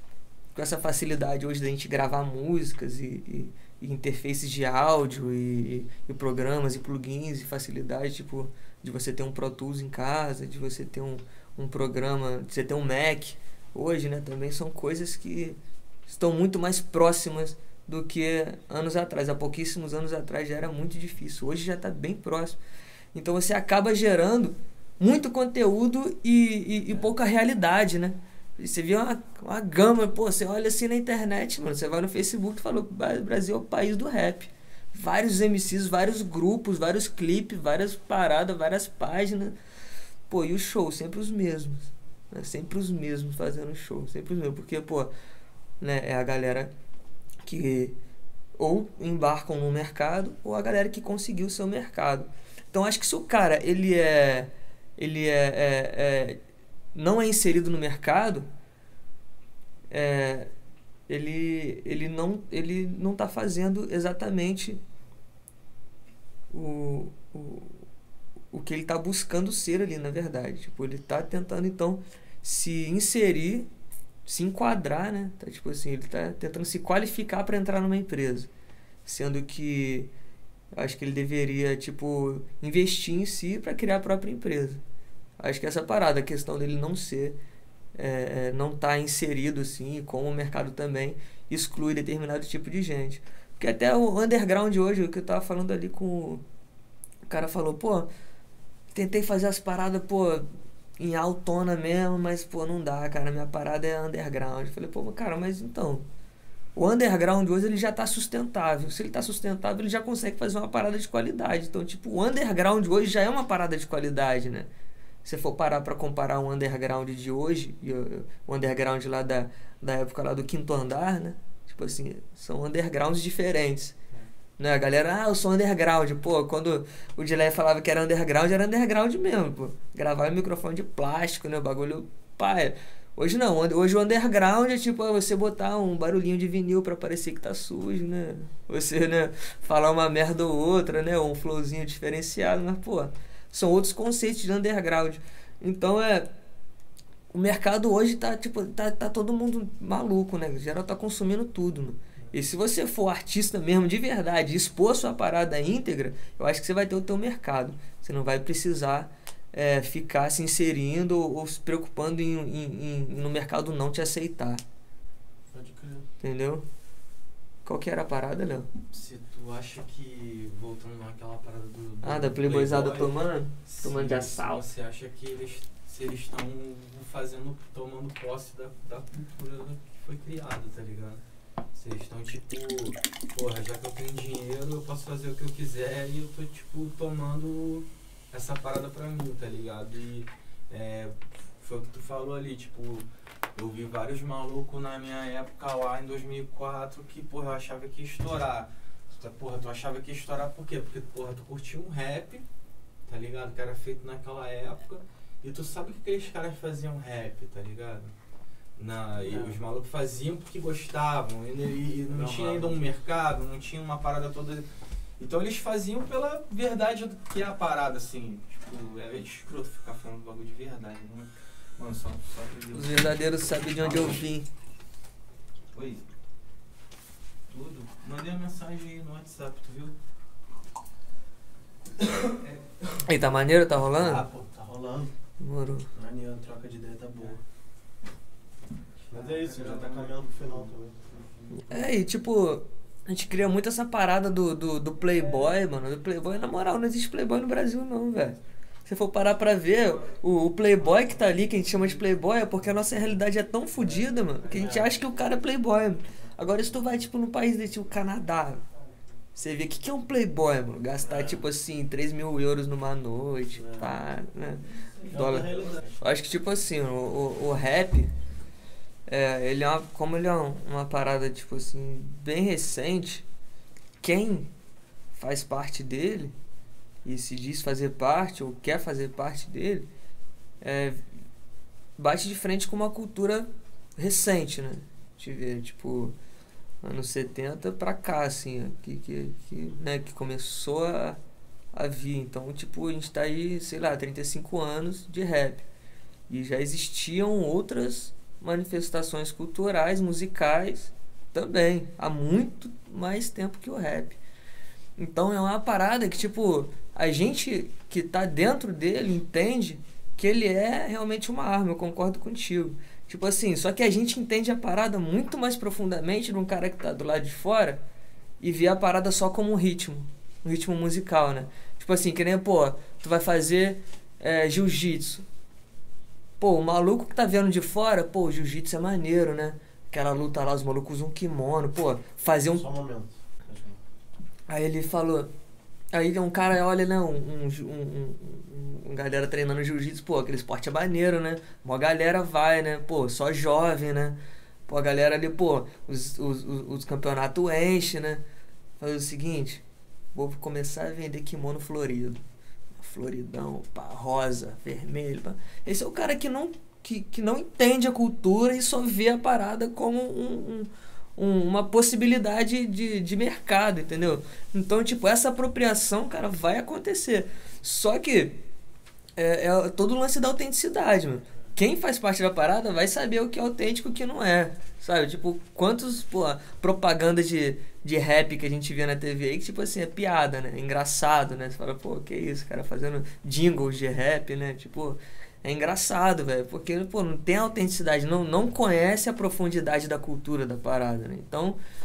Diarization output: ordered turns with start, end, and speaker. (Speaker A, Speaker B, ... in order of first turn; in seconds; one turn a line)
Speaker A: 0.6-22.6
Speaker A: 23.1-39.5
Speaker A: 40.3-45.1
Speaker A: 45.8-46.7
Speaker A: 47.4-48.0
Speaker A: 48.6-56.4
Speaker A: 56.9-58.5
Speaker A: 59.9-60.5
Speaker A: 61.1-64.8
Speaker A: 66.5-67.8
Speaker A: 68.5-73.7
Speaker A: 74.3-78.5
Speaker A: 79.0-80.1
Speaker A: 80.7-84.8
Speaker A: 85.4-87.4
Speaker A: 88.0-96.4
Speaker A: 97.3-98.1
Speaker A: 98.9-100.5
Speaker A: 101.0-106.0
Speaker A: 106.8-114.7
Speaker A: 115.2-124.0
Speaker A: 124.6-146.3
Speaker A: 147.3-164.6
Speaker B: 165.5-166.1
Speaker A: 166.2-166.7
Speaker A: 167.7-168.7
Speaker C: 168.9-181.2
Speaker A: 172.0-174.6
Speaker C: 181.7-202.4
Speaker C: 203.1-208.1
Speaker C: 208.8-214.7
Speaker B: 209.3-209.6
Speaker B: 211.9-212.8
Speaker C: 215.2-223.1
Speaker A: 222.7-224.5
Speaker C: 223.8-224.2
Speaker C: 225.7-226.1
Speaker C: 227.5-229.9
Speaker C: 232.1-232.6
Speaker A: 233.0-234.2
Speaker B: 234.0-235.1
Speaker A: 235.4-235.9
Speaker B: 235.9-237.4
Speaker C: 239.0-240.8
Speaker B: 239.1-241.3
Speaker A: 241.5-258.6
Speaker B: 254.4-254.9
Speaker A: 259.4-268.1
Speaker B: 261.0-261.4
Speaker B: 263.5-263.9
Speaker B: 265.1-265.8
Speaker A: 269.1-273.2
Speaker A: 274.0-274.5
Speaker A: 275.2-276.4
Speaker A: 277.1-279.9
Speaker A: 280.6-281.0
Speaker A: 282.0-286.1
Speaker A: 286.8-291.2
Speaker A: 291.7-295.7
Speaker A: 296.3-304.2
Speaker A: 305.0-317.8
Speaker A: 318.4-325.2
Speaker A: 326.4-332.7
Speaker B: 332.5-333.8
Speaker A: 334.5-335.3
Speaker A: 335.9-344.2
Speaker A: 344.7-348.2
Speaker A: 348.8-349.6
Speaker A: 350.1-352.2
Speaker A: 352.8-368.4
Speaker A: 369.2-391.6